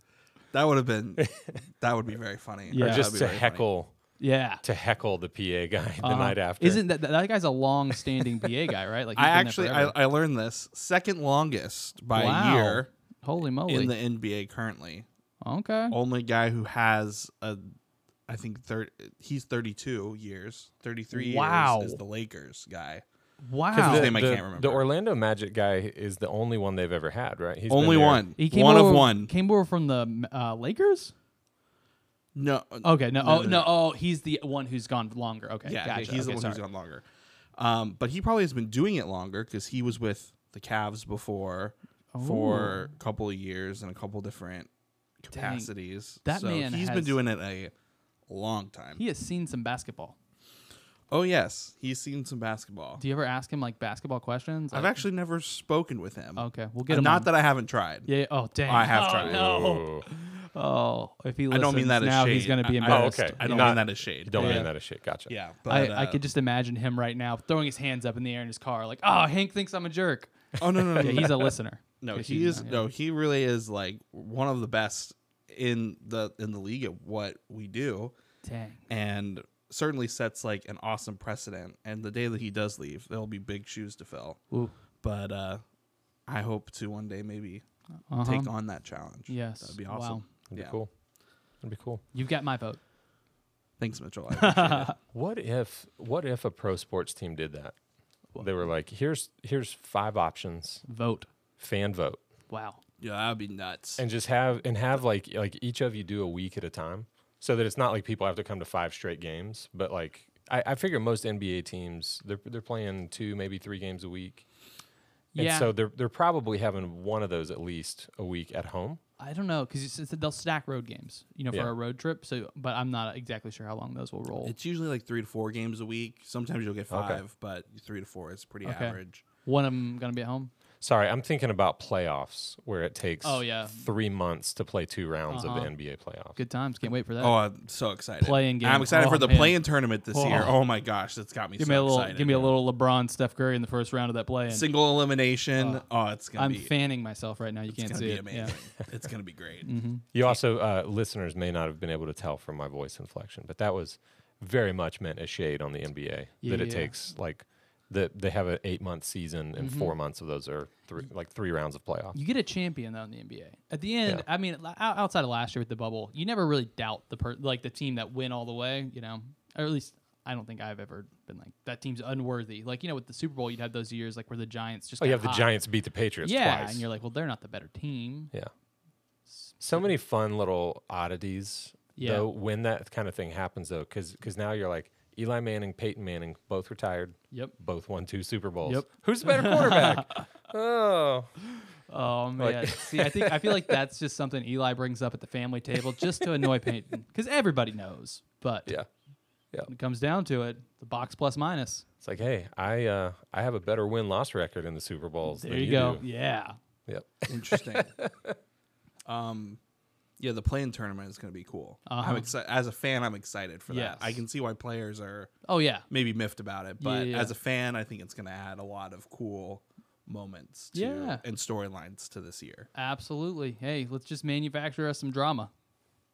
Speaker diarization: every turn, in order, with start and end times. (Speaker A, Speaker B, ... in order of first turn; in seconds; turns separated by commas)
Speaker A: 0.5-3.6, Speaker B: 1.2-1.6, Speaker C: 2.7-3.1, Speaker B: 2.8-3.9, Speaker C: 4.2-4.6, Speaker B: 4.6-6.8, Speaker C: 6.0-9.9, Speaker A: 9.1-12.9, Speaker C: 12.1-13.9, Speaker A: 13.7-15.1, Speaker C: 15.4-15.9, Speaker A: 15.9-17.6, Speaker A: 18.3-23.0, Speaker C: 21.1-22.0, Speaker C: 23.4-24.1, Speaker B: 23.7-28.2, Speaker A: 23.7-24.8, Speaker A: 27.7-29.3, Speaker C: 28.4-31.1, Speaker A: 32.3-33.7, Speaker C: 32.8-36.6, Speaker A: 35.6-37.0, Speaker A: 37.5-44.7, Speaker C: 42.1-42.9, Speaker A: 45.2-47.7, Speaker C: 45.3-45.7, Speaker C: 46.2-47.2, Speaker A: 48.3-49.0, Speaker C: 49.0-50.1, Speaker A: 51.1-53.0, Speaker C: 53.0-55.0, Speaker A: 54.7-58.1, Speaker C: 56.4-57.3, Speaker C: 58.0-64.7, Speaker A: 58.6-59.5, Speaker B: 59.2-60.0, Speaker A: 61.5-64.7, Speaker B: 62.9-65.3, Speaker A: 65.3-66.2, Speaker C: 65.7-70.3, Speaker A: 70.6-78.1, Speaker B: 70.7-71.2, Speaker C: 70.9-72.8, Speaker C: 78.4-78.8, Speaker A: 78.9-84.4, Speaker A: 85.0-85.6, Speaker A: 86.3-87.6, Speaker C: 88.1-88.5, Speaker A: 88.2-90.8, Speaker C: 89.3-90.2, Speaker B: 90.5-90.9, Speaker B: 91.6-92.0, Speaker C: 92.1-92.8, Speaker A: 93.8-94.9, Speaker C: 94.4-95.0, Speaker B: 95.1-97.8, Speaker B: 98.4-100.8, Speaker C: 100.8-101.3, Speaker B: 101.6-102.2, Speaker C: 102.5-102.8, Speaker A: 103.0-104.0, Speaker B: 104.0-114.4, Speaker C: 115.3-115.7, Speaker B: 115.3-119.0, Speaker C: 119.2-124.5, Speaker A: 124.4-129.2, Speaker B: 126.9-127.2, Speaker C: 128.6-130.5, Speaker B: 130.8-136.4, Speaker C: 133.2-133.8, Speaker C: 135.3-135.7, Speaker C: 136.3-137.4, Speaker A: 137.2-142.4, Speaker C: 138.2-139.6, Speaker C: 140.1-140.6, Speaker C: 141.6-144.7, Speaker A: 144.5-146.7, Speaker C: 145.6-145.8, Speaker C: 146.4-148.6, Speaker A: 147.7-149.7, Speaker C: 149.6-150.0, Speaker B: 150.1-162.2, Speaker C: 156.4-156.9, Speaker C: 159.6-159.9, Speaker C: 162.1-175.5, Speaker B: 175.0-176.8, Speaker C: 176.2-178.3, Speaker C: 179.4-179.8, Speaker B: 179.6-191.4, Speaker C: 181.9-182.3, Speaker C: 188.7-190.3, Speaker C: 191.9-198.7, Speaker B: 192.4-193.7, Speaker C: 199.7-201.8, Speaker B: 202.0-206.0, Speaker C: 205.2-206.6, Speaker B: 206.9-208.4, Speaker A: 207.3-208.0, Speaker A: 209.0-209.6, Speaker A: 210.2-215.3, Speaker C: 211.9-212.3, Speaker C: 213.7-214.2, Speaker C: 215.4-215.9, Speaker A: 215.9-222.7, Speaker C: 216.8-217.3, Speaker C: 220.7-221.2, Speaker C: 222.7-225.5